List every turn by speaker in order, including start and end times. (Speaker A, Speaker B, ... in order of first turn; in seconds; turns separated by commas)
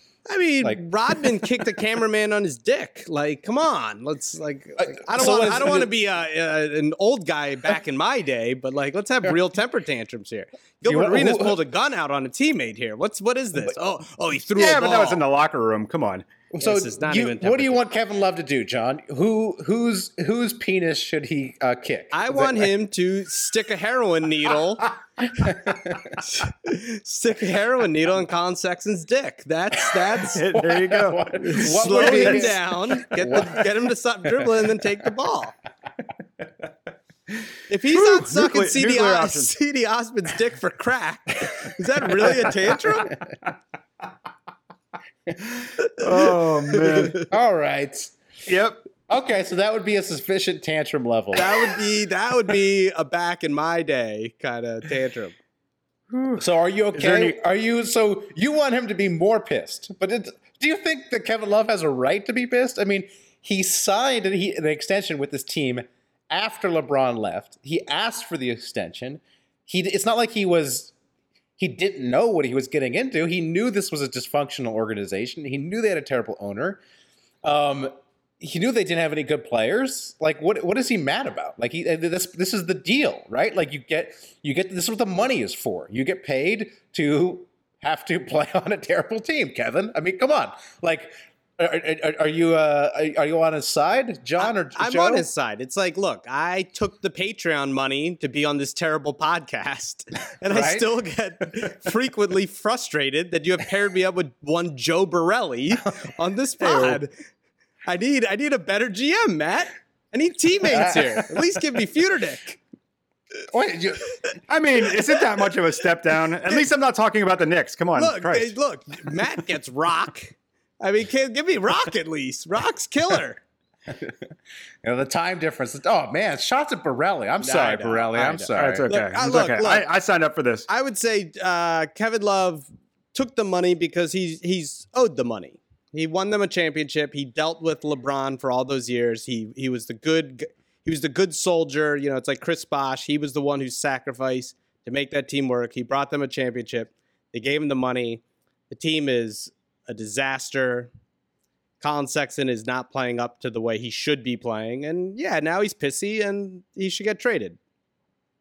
Speaker A: 0.3-15.2, Speaker B: 4.8-5.9, Speaker B: 10.8-11.6, Speaker C: 14.6-16.2, Speaker B: 16.5-22.7, Speaker A: 16.6-17.8, Speaker A: 22.1-24.9, Speaker B: 25.2-26.2, Speaker A: 26.2-30.4, Speaker C: 30.3-32.6, Speaker B: 30.5-33.7, Speaker A: 31.4-35.5, Speaker C: 37.3-39.5, Speaker A: 37.7-43.1, Speaker B: 43.1-43.3, Speaker C: 45.6-47.2, Speaker A: 46.7-47.3, Speaker B: 47.3-48.2, Speaker C: 48.5-48.8, Speaker B: 49.1-51.7, Speaker A: 51.3-55.3, Speaker C: 56.1-57.4, Speaker B: 56.4-70.9, Speaker B: 71.6-76.8, Speaker B: 77.4-95.3, Speaker A: 94.4-107.1, Speaker B: 100.5-100.9, Speaker C: 106.6-107.0, Speaker A: 107.8-112.6, Speaker B: 110.7-111.3, Speaker B: 113.5-114.1, Speaker C: 114.5-118.5, Speaker A: 118.0-123.4, Speaker B: 123.9-128.8, Speaker A: 127.4-129.9, Speaker C: 128.5-130.7, Speaker A: 130.7-150.9, Speaker A: 151.8-157.6